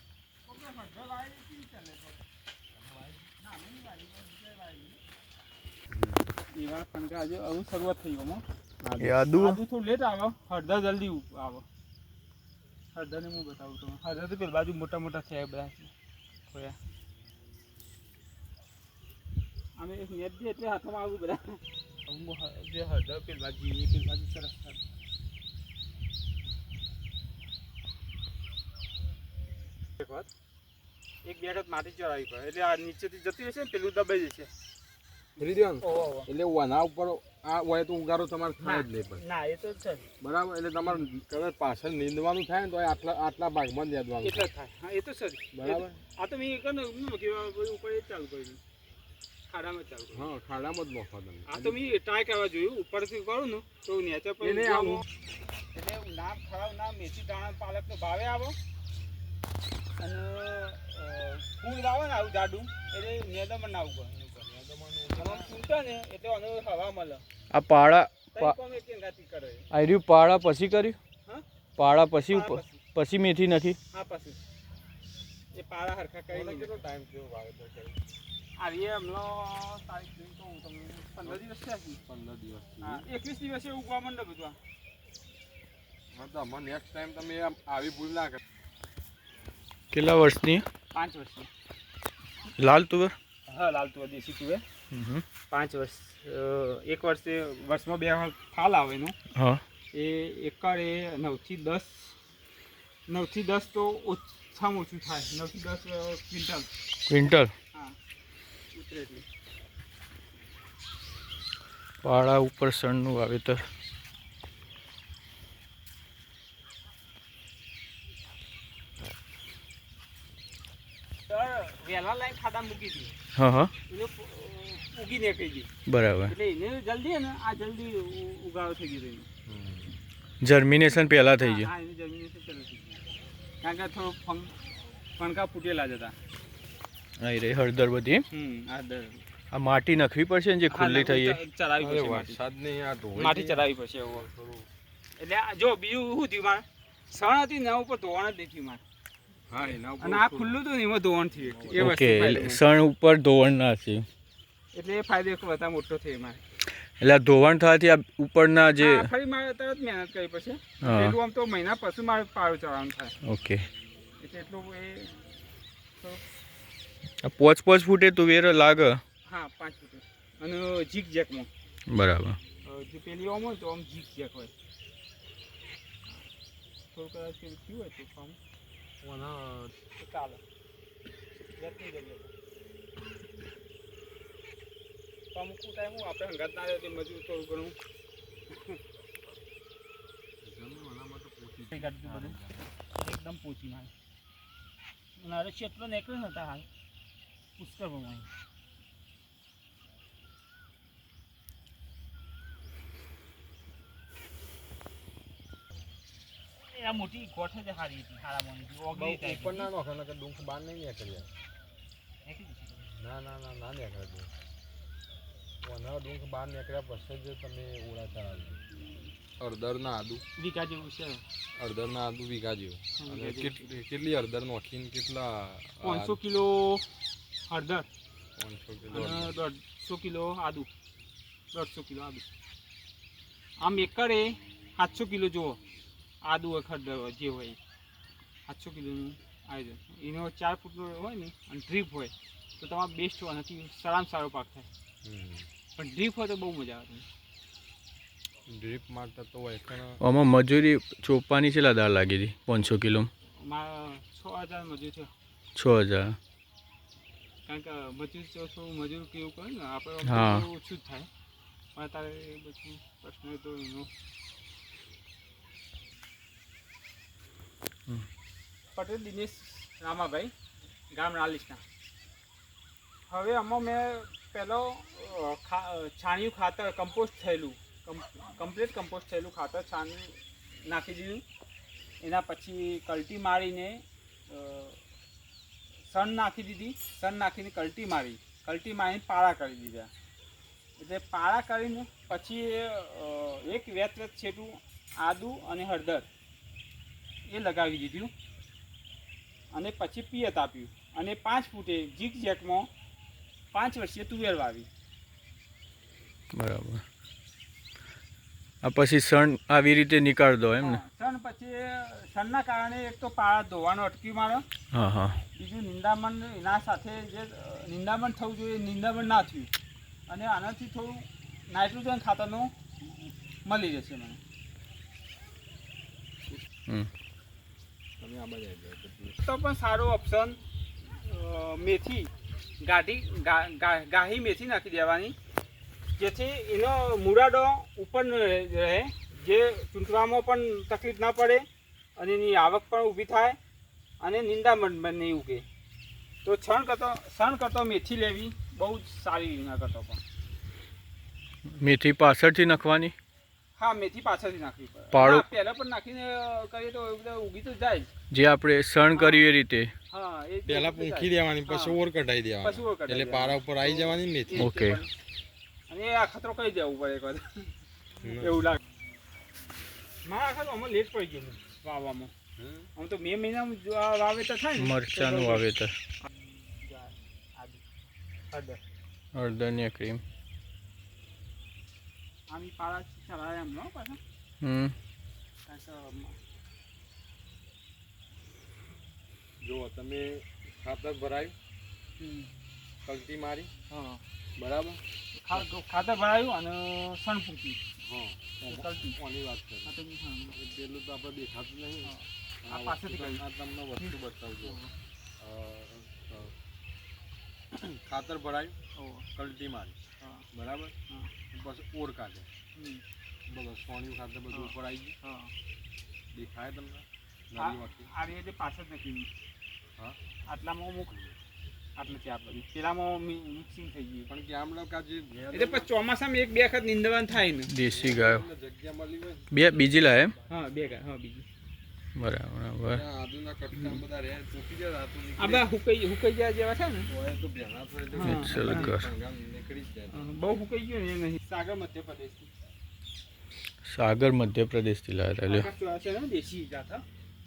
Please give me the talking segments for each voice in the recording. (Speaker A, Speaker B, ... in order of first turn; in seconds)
Speaker A: 0.5-2.2, 3.4-5.0, 6.5-11.6, 12.9-15.9, 16.5-16.8, 19.8-24.8, 30.0-30.3, 31.2-34.5, 35.8-36.3, 38.6-40.1, 44.2-48.6, 49.5-50.2, 51.5-55.0, 55.7-58.6, 60.0-64.3, 65.1-67.2, 68.3-69.7, 72.3-72.8, 73.9-74.4, 75.5-76.8, 78.5-82.0, 82.8-84.6, 90.9-91.5, 93.5-94.6, 95.5-99.2, 99.9-102.2, 103.1-106.7, 108.7-109.2, 121.3-123.1, 123.9-125.7, 126.3-129.3, 131.4-133.0, 133.6-134.6, 135.2-136.2, 138.3-139.2, 140.7-142.4, 143.2-144.3, 145.2-148.8, 150.0-152.6, 154.7-156.4, 158.8-163.1, 164.2-165.2, 169.2-171.5, 172.6-174.5, 176.9-178.4, 179.9-180.4, 181.6-182.3, 185.3-187.8, 188.5-188.8, 191.7-192.4, 193.0-193.9, 195.2-196.7, 197.6-198.3, 206.6-209.7, 212.2-212.8, 220.4-221.2, 222.9-223.6, 225.8-226.9, 227.5-227.9, 228.9-230.7, 231.5-232.2, 233.6-235.6, 236.2-237.6, 238.4-244.7, 245.8-247.1, 253.4-255.1, 257.4-261.1, 261.7-263.9, 268.7-270.3, 270.9-271.6, 273.1-281.2, 282.0-284.8, 285.9-289.9, 290.8-296.1, 297.3-298.1, 299.5-302.7, 303.5-304.7, 310.6-314.4, 315.3-319.5, 320.1-324.2, 329.2-330.4, 330.9-335.1, 336.0-341.4, 342.0-343.4, 344.0-345.4, 346.2-350.0, 353.6-357.9, 358.9-359.3, 359.9-361.8, 362.4-364.9, 365.7-367.5, 368.0-368.6, 370.0-372.1, 372.8-375.4, 376.0-377.6, 378.3-378.6, 382.3-384.0, 385.4-386.2, 392.0-392.3, 393.7-394.0, 395.1-397.6, 398.4-399.0, 399.6-400.4, 401.8-403.2, 403.8-404.7, 408.7-409.1, 410.0-410.2, 412.5-412.8, 414.3-415.3, 417.4-419.1, 420.3-420.9, 421.8-424.1, 425.3-427.5, 430.3-431.2, 433.5-433.8, 435.2-436.9, 437.9-438.7, 439.9-442.3, 445.2-446.8
Speaker B: 5.9-6.2, 35.4-39.2, 40.2-44.4, 45.5-46.0, 50.1-51.8, 54.4-55.0, 64.3-65.5, 76.3-78.0, 82.1-83.1, 86.1-88.4, 129.4-129.9, 141.8-144.7, 149.5-150.6, 151.4-151.9, 179.0-179.7, 190.4-192.7, 208.9-211.3, 212.9-214.3, 215.6-218.6, 219.4-220.2, 221.6-226.2, 228.3-229.3, 245.0-245.5, 248.5-250.0, 328.0-329.2, 360.5-364.5, 368.0-368.4, 372.4-372.7, 389.4-391.3, 392.8-393.5, 394.4-394.8, 397.8-399.7, 400.3-404.6, 405.2-406.3, 407.5-408.6, 409.1-409.8, 410.3-410.7, 411.3-412.3, 413.3-414.9, 416.1-417.9, 424.1-425.7, 427.6-430.4, 432.7-435.5, 436.9-440.1
Speaker C: 9.0-9.6, 67.5-68.5, 69.7-71.0, 71.8-73.8, 89.9-90.6, 92.6-93.1, 94.9-95.2, 99.3-99.6, 107.1-107.5, 112.0-113.6, 123.3-123.7, 125.9-126.3, 130.4-131.7, 137.2-138.2, 139.5-141.4, 151.7-154.0, 157.0-159.1, 160.8-161.2, 163.2-163.6, 167.2-169.0, 171.9-172.4, 250.0-253.1, 255.6-256.2, 260.1-260.5, 306.3-306.8, 308.6-310.8, 314.7-315.2, 351.6-352.9, 354.9-355.3, 358.1-359.7, 364.4-364.8, 374.6-375.7, 379.1-380.0, 384.4-384.7, 427.5-428.2, 429.3-430.1, 431.9-432.8, 438.0-438.9, 443.7-445.5